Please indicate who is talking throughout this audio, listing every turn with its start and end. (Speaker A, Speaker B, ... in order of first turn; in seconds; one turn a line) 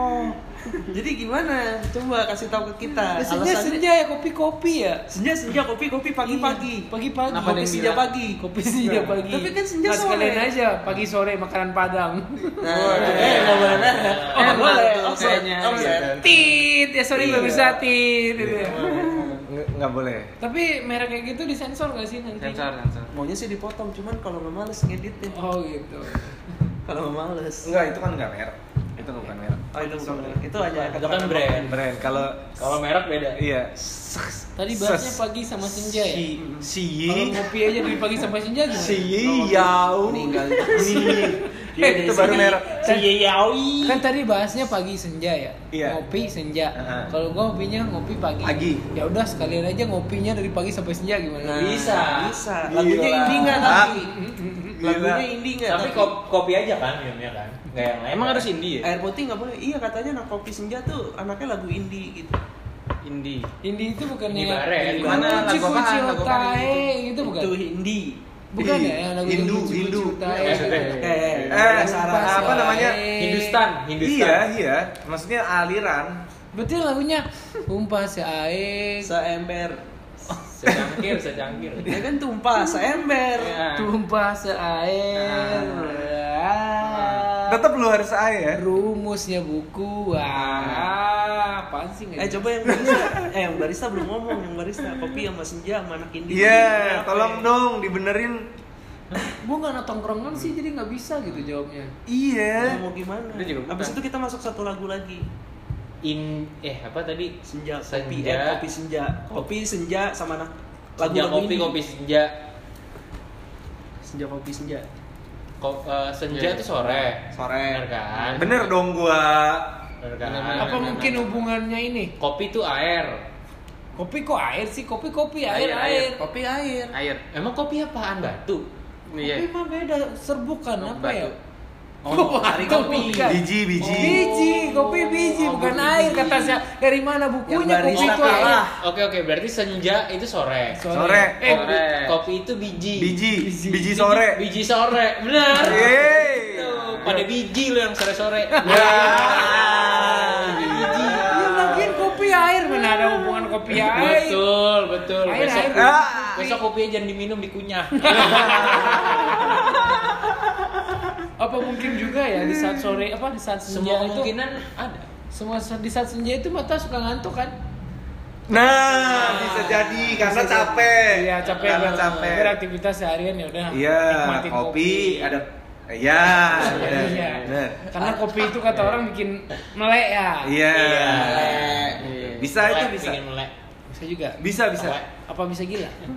Speaker A: 0.7-3.8
Speaker B: 3.2-5.1
Speaker A: 5.1-6.9
Speaker B: 6.2-13.4
Speaker C: 7.3-8.1
Speaker A: 7.4-8.4
Speaker A: 9.1-10.5
Speaker A: 12.6-16.2
Speaker C: 12.7-16.3
Speaker D: 12.9-14.7
Speaker B: 16.2-19.1
Speaker E: 17.1-17.9
Speaker E: 18.4-20.3
Speaker A: 18.6-19.4
Speaker B: 20.4-22.7
Speaker C: 22.4-23.1
Speaker A: 23.1-25.4
Speaker B: 25.3-26.4
Speaker A: 26.9-27.8
Speaker E: 27.6-30.3
Speaker A: 29.7-31.8
Speaker D: 30.7-32.0
Speaker E: 31.6-32.6
Speaker D: 32.5-33.4
Speaker E: 33.4-37.5
Speaker B: 34.6-36.4
Speaker A: 36.4-36.7
Speaker B: 37.1-39.2
Speaker E: 38.7-42.8
Speaker A: 39.1-42.6
Speaker B: 40.7-43.1
Speaker D: 42.8-44.0
Speaker B: 43.8-51.7
Speaker E: 45.7-46.0
Speaker E: 46.8-47.1
Speaker E: 48.4-48.9
Speaker A: 51.4-54.1
Speaker D: 51.6-52.4
Speaker E: 52.7-54.0
Speaker B: 53.2-54.8
Speaker E: 54.8-55.3
Speaker A: 54.8-56.2
Speaker D: 55.7-58.5
Speaker E: 57.7-58.3
Speaker C: 58.1-58.9
Speaker A: 58.8-62.4
Speaker C: 63.0-63.5
Speaker B: 63.6-67.6
Speaker D: 64.3-65.6
Speaker C: 64.9-66.9
Speaker A: 67.2-68.2
Speaker B: 68.5-71.1
Speaker E: 68.6-70.4
Speaker C: 70.4-71.7
Speaker D: 70.5-71.1
Speaker A: 70.6-72.3
Speaker E: 71.5-73.0
Speaker B: 71.7-73.6
Speaker C: 72.2-72.9
Speaker D: 72.8-74.5
Speaker E: 74.0-76.2
Speaker B: 76.5-79.1
Speaker A: 79.0-79.8
Speaker D: 80.4-82.0
Speaker A: 81.8-83.6
Speaker C: 83.3-83.9
Speaker B: 83.7-87.6
Speaker C: 85.2-85.9
Speaker A: 85.5-86.1
Speaker C: 86.8-87.3
Speaker E: 87.5-88.6
Speaker B: 88.5-92.7
Speaker C: 90.4-90.9
Speaker A: 92.2-97.5
Speaker E: 92.7-93.1
Speaker E: 96.3-98.5
Speaker B: 99.3-101.9
Speaker E: 102.1-102.8
Speaker A: 102.6-105.3
Speaker C: 103.3-104.0
Speaker D: 106.0-108.6
Speaker A: 107.4-111.8
Speaker D: 111.0-112.3
Speaker A: 114.0-114.9
Speaker D: 115.6-118.6
Speaker C: 116.3-116.6
Speaker A: 117.3-117.9
Speaker E: 118.4-119.8
Speaker D: 120.0-121.2
Speaker C: 120.2-121.3
Speaker B: 120.6-122.1
Speaker D: 122.2-123.2
Speaker B: 124.0-126.3
Speaker C: 125.5-126.1
Speaker A: 126.2-126.9
Speaker C: 126.9-127.2
Speaker D: 127.3-128.7
Speaker C: 129.1-129.5
Speaker B: 129.2-131.4
Speaker C: 130.8-131.3
Speaker A: 132.0-133.4
Speaker B: 132.1-138.7
Speaker C: 132.8-133.3
Speaker E: 133.3-134.3
Speaker C: 135.3-136.4
Speaker A: 137.5-138.8
Speaker D: 137.9-143.2
Speaker B: 140.7-141.8
Speaker E: 140.9-141.4
Speaker C: 141.5-142.2
Speaker E: 143.0-144.4
Speaker B: 143.3-144.0
Speaker D: 144.1-151.4
Speaker B: 145.5-145.9
Speaker E: 145.6-146.7
Speaker E: 148.6-152.0
Speaker B: 148.7-149.5
Speaker B: 151.2-154.5
Speaker D: 153.7-159.8
Speaker B: 155.2-156.1
Speaker E: 155.7-156.5
Speaker B: 158.1-159.7
Speaker E: 159.4-160.1
Speaker B: 161.4-164.3
Speaker D: 163.7-165.1
Speaker B: 165.3-167.5
Speaker E: 168.5-172.6
Speaker B: 168.9-175.4
Speaker D: 171.6-172.4
Speaker E: 173.7-177.8
Speaker B: 176.6-180.6
Speaker D: 176.6-177.2
Speaker C: 176.8-177.5
Speaker E: 180.4-181.7
Speaker D: 180.7-183.5
Speaker A: 181.2-182.0
Speaker C: 181.9-182.5
Speaker E: 182.4-183.2
Speaker B: 183.9-184.4
Speaker E: 184.4-185.0
Speaker D: 184.8-185.1
Speaker B: 185.2-186.1